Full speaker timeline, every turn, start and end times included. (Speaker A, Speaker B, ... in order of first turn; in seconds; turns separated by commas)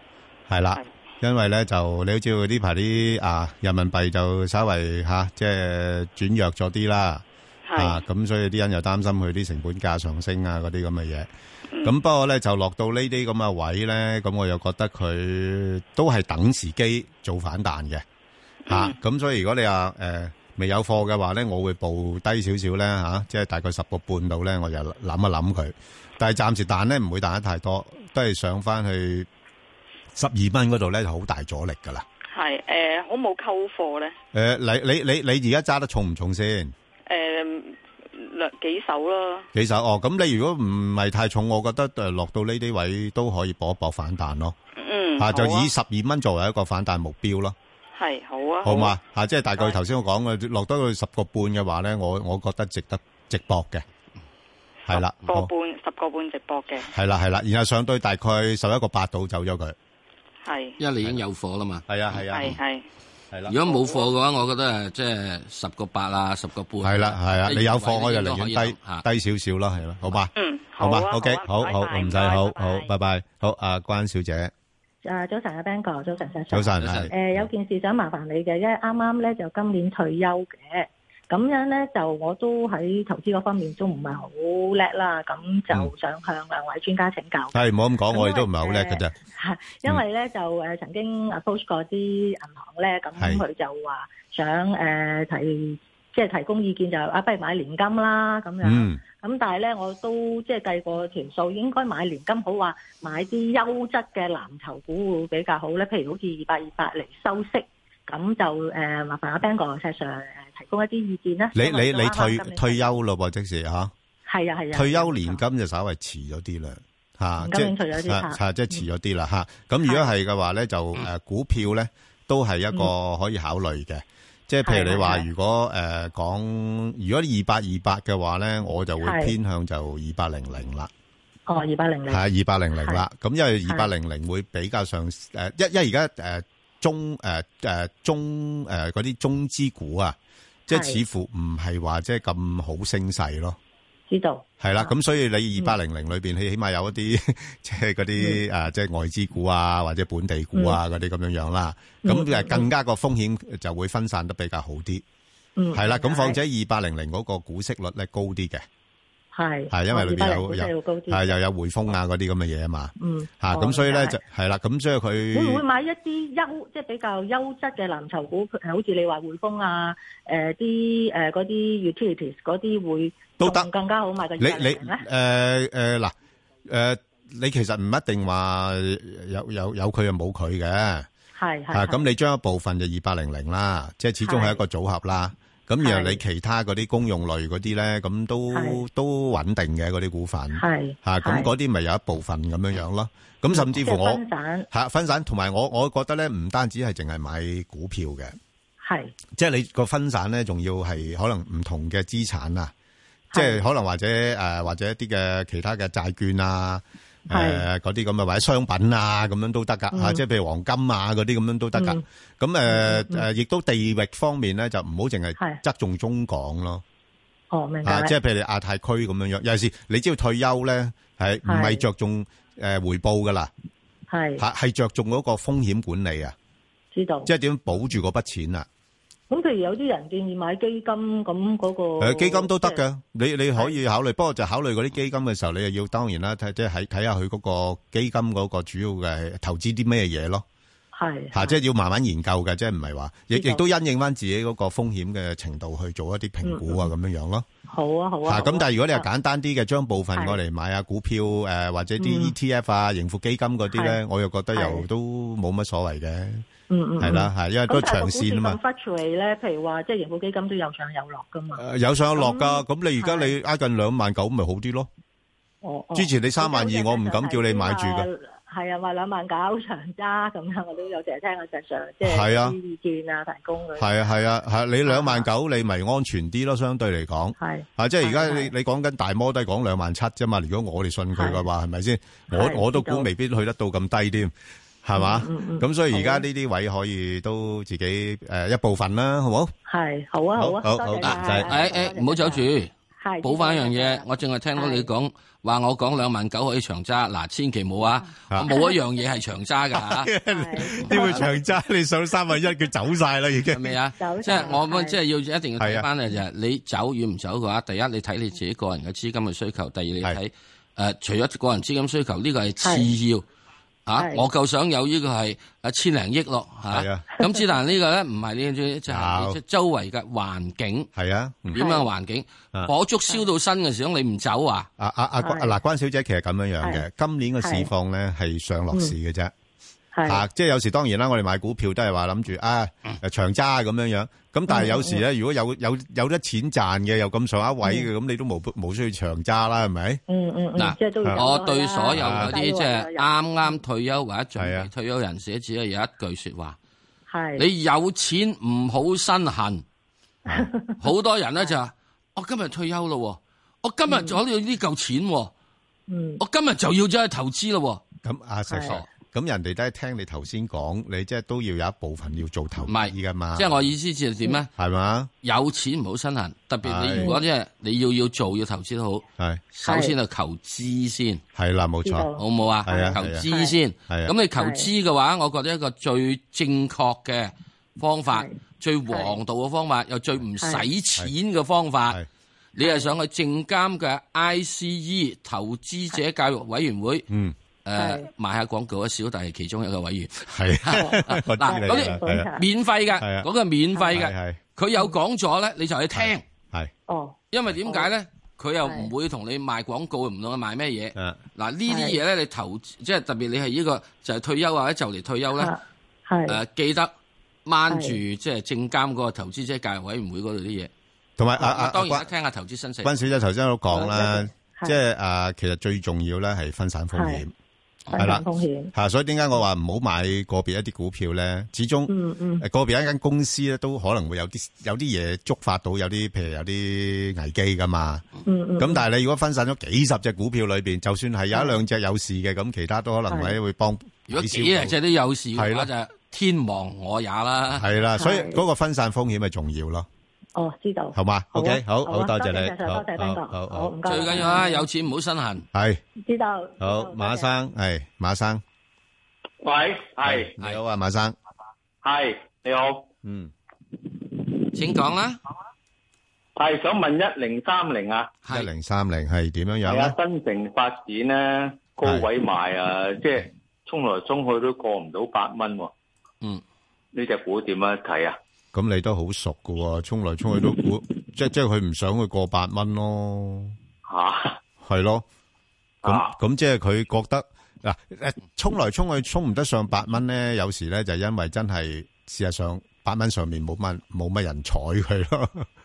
Speaker A: 0.5-7.2, Speaker B: 7.7-8.0, Speaker A: 7.8-11.3, Speaker A: 11.8-18.0, Speaker B: 18.7-19.0, Speaker A: 18.7-29.3, Speaker A: 30.1-32.0, Speaker B: 32.3-34.1, Speaker A: 34.3-36.7, Speaker B: 37.1-39.5, Speaker A: 39.5-44.5, Speaker B: 44.8-45.7, Speaker A: 45.2-47.6, Speaker B: 48.0-49.0, Speaker A: 48.6-53.8, Speaker A: 54.9-55.5, Speaker B: 54.9-56.9, Speaker A: 56.9-59.8, Speaker B: 60.4-60.8, Speaker C: 60.8-62.6, Speaker A: 61.9-62.6, Speaker B: 62.3-62.9, Speaker C: 63.5-69.0, Speaker A: 66.8-74.5, Speaker B: 70.4-72.9, Speaker D: 75.0-87.6, Speaker A: 76.5-77.5, Speaker C: 76.8-77.1, Speaker A: 87.5-89.1, Speaker D: 88.1-113.0, Speaker A: 93.2-93.4, Speaker A: 98.6-99.0, Speaker A: 111.5-113.9, Speaker D: 114.3-115.4, Speaker A: 114.7-130.9, Speaker D: 117.4-118.8, Speaker D: 124.6-125.3, Speaker D: 129.0-129.3, Speaker D: 131.5-132.2, Speaker A: 132.1-140.2, Speaker D: 132.8-133.0, Speaker A: 140.7-143.6, Speaker D: 140.7-141.0, Speaker D: 144.1-144.9, Speaker A: 144.6-155.0, Speaker D: 148.2-148.4, Speaker D: 152.0-152.7, Speaker D: 155.6-156.4, Speaker A: 155.7-158.6, Speaker D: 159.3-161.3, Speaker A: 159.7-165.7, Speaker D: 163.0-164.2, Speaker D: 165.3-175.0, Speaker A: 173.4-173.7, Speaker A: 174.4-176.1, Speaker A: 176.7-181.1, Speaker D: 181.4-182.1, Speaker A: 181.7-198.4, Speaker D: 184.2-184.6, Speaker D: 185.8-186.2, Speaker D: 188.5-188.8, Speaker D: 190.5-191.5, Speaker D: 193.5-194.7, Speaker D: 198.8-199.2, Speaker A: 199.3-202.7, Speaker D: 203.3-203.7, Speaker A: 203.3-216.8, Speaker D: 207.3-207.7, Speaker D: 209.9-210.2, Speaker D: 211.8-212.0, Speaker D: 212.7-213.3, Speaker D: 217.5-218.2, Speaker A: 217.8-223.5, Speaker D: 221.5-221.8, Speaker D: 224.1-224.4, Speaker A: 224.4-226.3, Speaker D: 226.9-227.3, Speaker A: 227.3-228.7, Speaker D: 229.3-232.8, Speaker A: 232.0-240.4, Speaker D: 240.9-241.6, Speaker A: 241.3-247.5, Speaker D: 243.3-243.6, Speaker D: 246.4-246.9, Speaker D: 247.7-249.1, Speaker A: 248.3-256.5, Speaker D: 252.0-252.3, Speaker D: 253.7-254.0, Speaker D: 254.5-254.9, Speaker D: 256.7-261.6, Speaker A: 257.0-258.6, Speaker A: 261.6-264.9, Speaker D: 262.2-263.3, Speaker D: 265.6-273.9, Speaker A: 265.9-268.1, Speaker A: 272.0-272.6, Speaker A: 273.8-284.3, Speaker D: 274.9-275.3, Speaker D: 277.4-278.5, Speaker D: 281.1-281.4, Speaker D: 282.3-283.1, Speaker A: 284.8-289.5, Speaker D: 284.9-286.3, Speaker D: 289.7-292.5, Speaker A: 290.4-291.6, Speaker C: 291.0-292.7, Speaker D: 293.0-294.9, Speaker C: 293.2-300.1, Speaker D: 298.5-298.8, Speaker A: 299.7-303.8, Speaker D: 300.3-301.4, Speaker C: 303.5-313.2, Speaker D: 304.0-305.0, Speaker A: 305.6-305.9, Speaker D: 312.6-312.9, Speaker C: 313.9-320.9, Speaker D: 314.0-314.3, Speaker A: 316.7-317.1, Speaker A: 318.9-319.4, Speaker A: 321.0-321.6, Speaker C: 321.5-324.7, Speaker D: 321.6-321.9, Speaker A: 324.8-329.3, Speaker D: 325.2-325.6, Speaker D: 327.4-327.7, Speaker D: 329.9-330.3, Speaker A: 330.1-340.0, Speaker D: 334.5-335.0, Speaker D: 337.6-337.9, Speaker D: 340.1-343.6, Speaker C: 340.6-346.6, Speaker A: 341.9-342.4, Speaker A: 344.4-344.7, Speaker D: 347.1-347.5, Speaker C: 347.4-349.6, Speaker D: 350.3-350.8, Speaker C: 350.8-355.3, Speaker D: 353.9-354.2, Speaker D: 355.9-356.2, Speaker C: 356.2-357.8, Speaker A: 358.0-363.6, Speaker D: 358.5-358.8, Speaker C: 362.7-364.5, Speaker A: 364.6-365.1, Speaker C: 365.2-371.2, Speaker A: 366.6-367.1, Speaker D: 366.9-367.2, Speaker A: 369.2-369.4, Speaker D: 369.6-369.9, Speaker A: 371.4-372.1, Speaker D: 371.9-373.6, Speaker C: 372.2-382.0, Speaker A: 372.7-373.2, Speaker D: 374.4-374.7, Speaker D: 378.1-378.4, Speaker D: 378.9-379.1, Speaker D: 380.4-380.7, Speaker C: 382.6-387.1, Speaker D: 382.6-382.9, Speaker A: 387.1-387.4, Speaker C: 387.6-396.2, Speaker D: 387.8-388.1, Speaker A: 390.3-392.3, Speaker D: 390.7-392.4, Speaker A: 393.0-393.3, Speaker A: 393.9-394.4, Speaker A: 395.9-396.7, Speaker D: 396.9-397.9, Speaker C: 397.3-405.5, Speaker D: 398.6-398.9, Speaker D: 401.7-402.0, Speaker D: 405.4-406.4, Speaker C: 406.3-406.9, Speaker C: 407.5-410.7, Speaker D: 407.7-408.0, Speaker A: 411.2-412.1, Speaker C: 411.4-412.9, Speaker A: 412.8-417.3, Speaker D: 413.7-414.8, Speaker D: 416.9-417.2, Speaker D: 417.9-418.7, Speaker A: 418.0-428.1, Speaker D: 421.9-422.4, Speaker D: 428.3-428.8, Speaker A: 428.6-434.7, Speaker D: 431.3-431.6, Speaker D: 433.1-433.4, Speaker C: 434.1-437.7, Speaker A: 435.4-435.7, Speaker A: 437.6-439.9, Speaker D: 437.9-438.4, Speaker D: 440.4-444.7, Speaker A: 440.9-444.3, Speaker C: 443.9-445.5, Speaker A: 445.5-445.8, Speaker D: 446.0-447.4, Speaker A: 446.6-448.4, Speaker E: 449.4-450.3, Speaker A: 450.0-451.1, Speaker E: 451.8-452.9, Speaker A: 453.1-453.3, Speaker C: 454.5-455.2, Speaker E: 456.4-458.1, Speaker C: 458.2-458.5, Speaker A: 458.3-460.0, Speaker E: 459.6-465.7, Speaker E: 466.9-468.2, Speaker A: 468.5-473.6, Speaker E: 473.9-474.4, Speaker A: 474.6-475.1, Speaker E: 475.8-476.2, Speaker A: 475.9-485.5